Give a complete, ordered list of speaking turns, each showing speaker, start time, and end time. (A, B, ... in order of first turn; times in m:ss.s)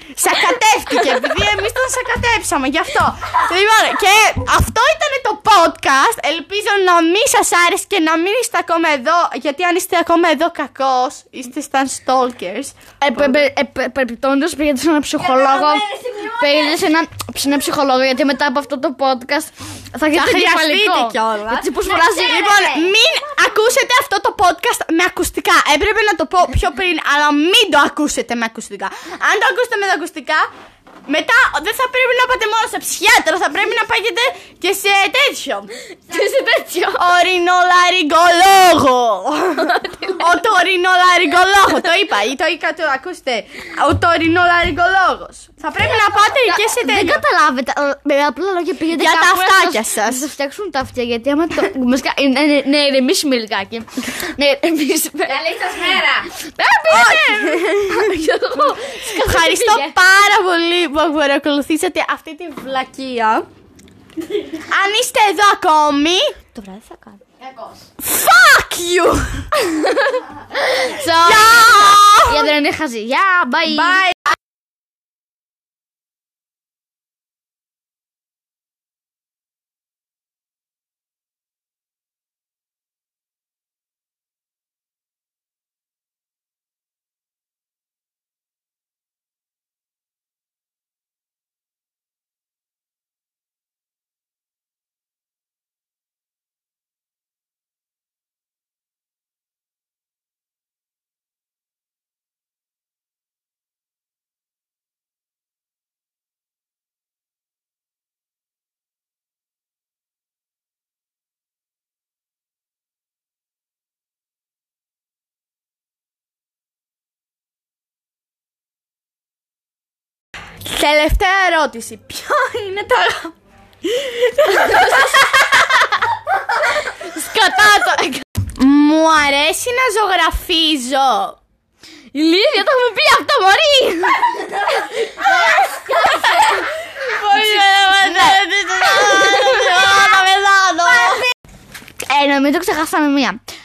0:00.2-0:13.4 A
0:00.9-0:01.3 B
0:13.0-0:22.7 B
0:15.2-0:16.8 C
0:20.1-0:30.5 A
0:21.8-0:23.0 C
0:31.0-0:35.7 A
0:36.1-0:37.2 B
0:36.1-0:36.5 C
0:36.9-0:47.2 A
0:39.6-0:40.4 B
0:46.4-1:00.0 B
0:48.9-0:50.3 A
0:55.2-0:56.3 C
0:56.9-1:03.4 A
1:04.5-1:06.3 A
1:06.5-1:07.2 B
1:07.4-1:07.9 C
1:08.0-1:09.5 A
1:09.6-1:14.1 B
1:10.8-1:12.5 A
1:13.7-1:14.2 A
2:00.6-2:03.3 A
2:03.8-2:05.7 A
2:06.8-2:08.2 B
2:08.6-2:11.4 A
2:12.1-2:15.2 B
2:15.2-2:21.3 A
2:15.5-2:16.3 C
2:17.3-2:20.2 B
2:22.0-2:23.4 B